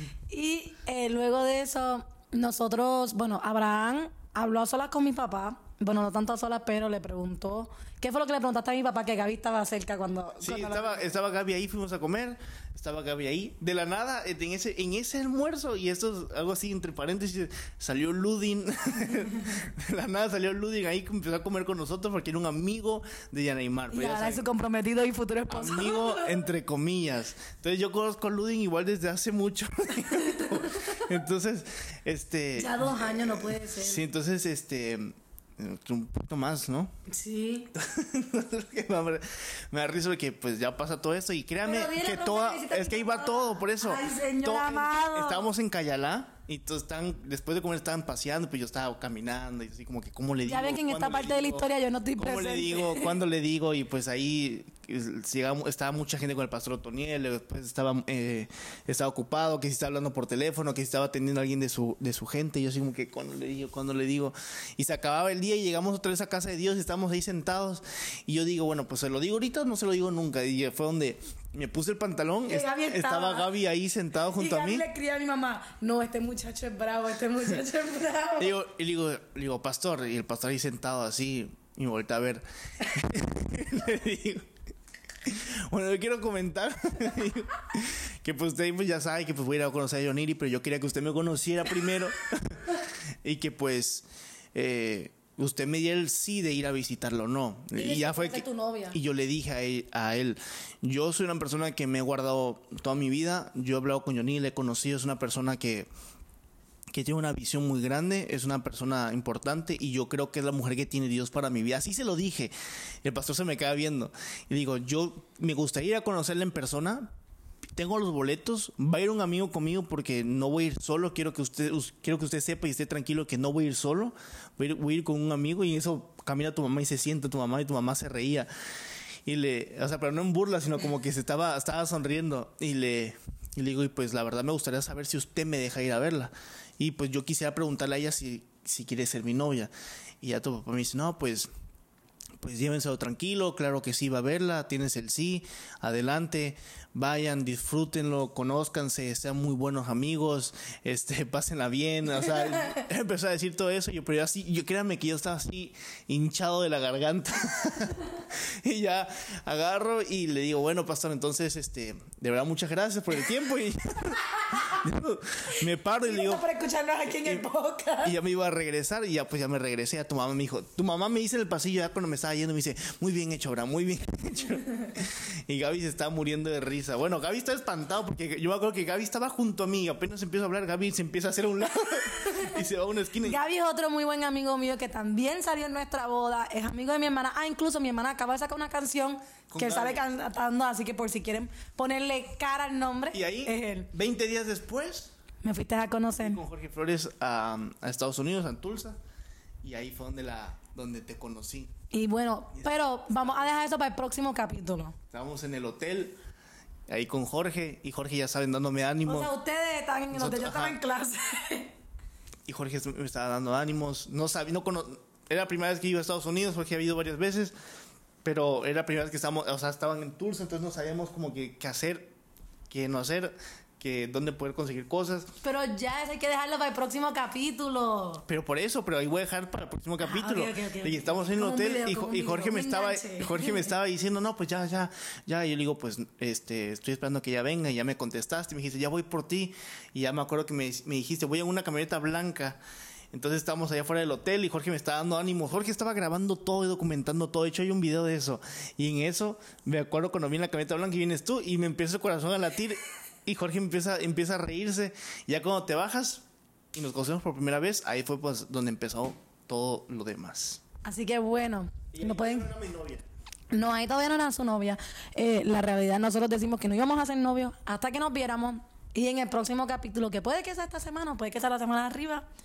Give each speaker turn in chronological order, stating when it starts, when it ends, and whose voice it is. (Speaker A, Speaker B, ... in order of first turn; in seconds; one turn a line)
Speaker A: 0.3-11.1
Speaker B: 10.4-24.5
Speaker A: 23.9-26.4
Speaker B: 25.5-36.9
Speaker A: 30.1-30.9
Speaker A: 32.6-34.0
Speaker A: 37.1-37.7
Speaker B: 37.7-74.8
Speaker A: 41.6-45.5
Speaker A: 50.5-53.1
Speaker A: 72.5-73.5
Speaker A: 74.3-78.5
Speaker B: 78.4-84.5
Speaker B: 85.2-105.9
Speaker A: 97.7-99.0
Speaker B: 106.9-112.5
Speaker B: 113.0-117.1
Speaker B: 117.8-128.5
Speaker B: 129.3-139.7
Speaker B: 140.2-141.5
Speaker B: 142.4-166.4
Speaker A: 166.0-168.1
Speaker B: 167.1-167.4
Speaker B: 168.0-183.4
Speaker A: 183.2-193.9
Speaker B: 189.5-190.0
Speaker B: 193.1-195.1
Speaker A: 195.4-196.4
Speaker B: 196.1-199.0
Speaker B: 199.6-201.7
Speaker A: 201.9-204.9
Speaker B: 202.6-203.7
Speaker B: 205.1-206.1
Speaker B: 206.9-209.3
Speaker A: 209.1-211.7
Speaker B: 210.1-210.8
Speaker B: 212.5-217.5
Speaker B: 218.2-222.1
Speaker B: 222.7-225.3
Speaker A: 225.4-228.2
Speaker B: 228.3-242.6
Speaker A: 230.0-233.7
Speaker B: 243.1-260.6
Speaker A: 260.8-262.5
Speaker B: 261.9-263.0
Speaker A: 263.5-272.2